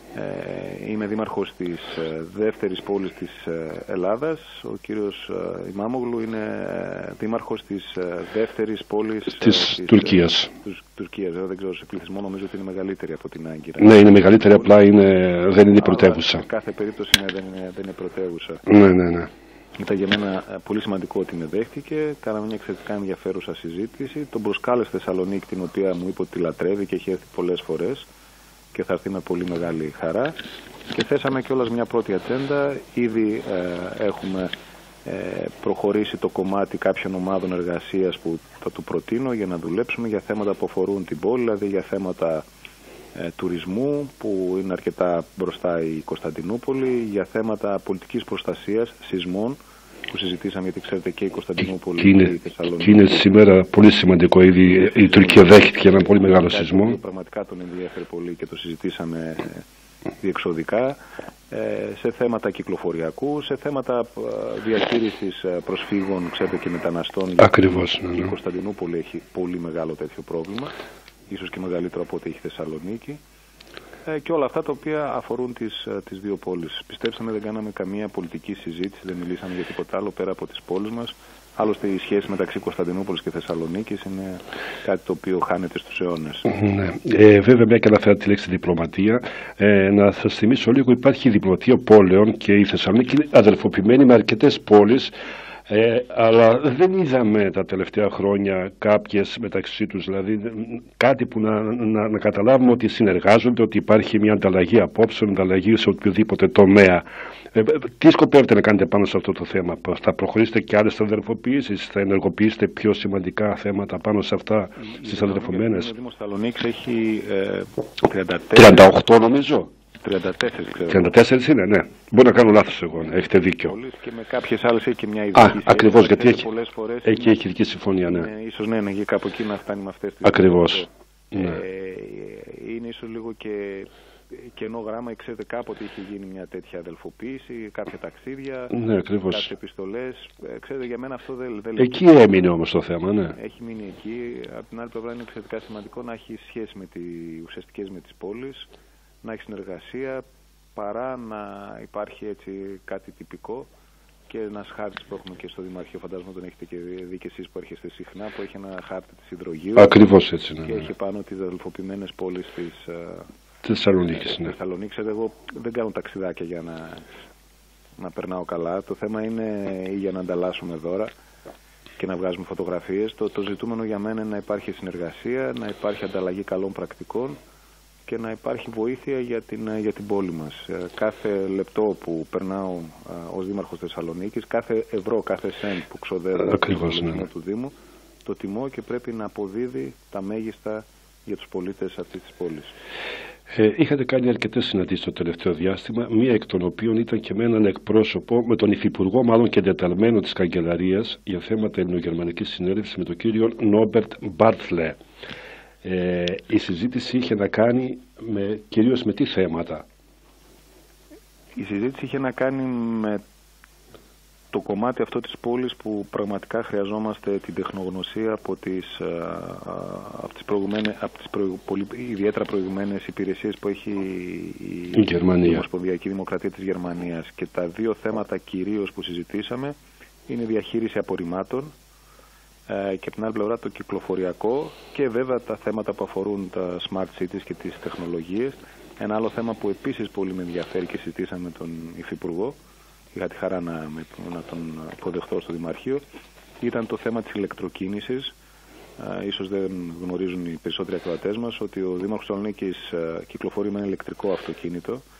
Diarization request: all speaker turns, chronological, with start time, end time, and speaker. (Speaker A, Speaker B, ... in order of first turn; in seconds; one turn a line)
Speaker A: 0.1-14.7
Speaker B: 9.4-10.5
Speaker B: 13.8-16.4
Speaker A: 15.8-18.6
Speaker B: 18.6-19.3
Speaker A: 19.8-28.1
Speaker A: 28.7-30.4
Speaker A: 30.9-34.5
Speaker A: 35.0-42.4
Speaker A: 43.1-53.2
Speaker B: 52.0-57.0
Speaker A: 54.7-59.6
Speaker A: 60.2-61.0
Speaker A: 61.5-70.7
Speaker B: 67.4-68.3
Speaker A: 71.3-73.2
Speaker A: 74.1-86.5
Speaker B: 86.5-95.1
Speaker B: 95.7-115.9
Speaker A: 114.8-118.9
Speaker B: 118.5-119.7
Speaker A: 120.0-121.1
Speaker B: 120.9-123.8
Speaker A: 123.6-127.4
Speaker B: 125.3-126.5
Speaker B: 127.0-128.3
Speaker A: 128.1-138.8
Speaker B: 130.2-131.6
Speaker B: 138.7-139.5
Speaker A: 139.3-142.1
Speaker B: 141.8-143.4
Speaker A: 143.3-148.7
Speaker A: 149.2-153.7
Speaker A: 154.3-160.1
Speaker B: 159.8-160.9
Speaker A: 160.6-163.3
Speaker B: 163.6-164.5
Speaker A: 164.0-167.1
Speaker A: 168.0-171.1
Speaker A: 172.0-177.4
Speaker A: 178.1-187.7
Speaker B: 186.4-187.2
Speaker A: 188.2-192.7
Speaker B: 193.5-205.0
Speaker B: 205.8-209.8
Speaker A: 211.6-213.2
Speaker A: 214.5-229.7
Speaker B: 224.9-225.6
Speaker A: 230.3-231.7
Speaker A: 232.7-242.6
Speaker A: 243.1-246.0
Speaker A: 246.6-248.3
Speaker A: 249.0-255.0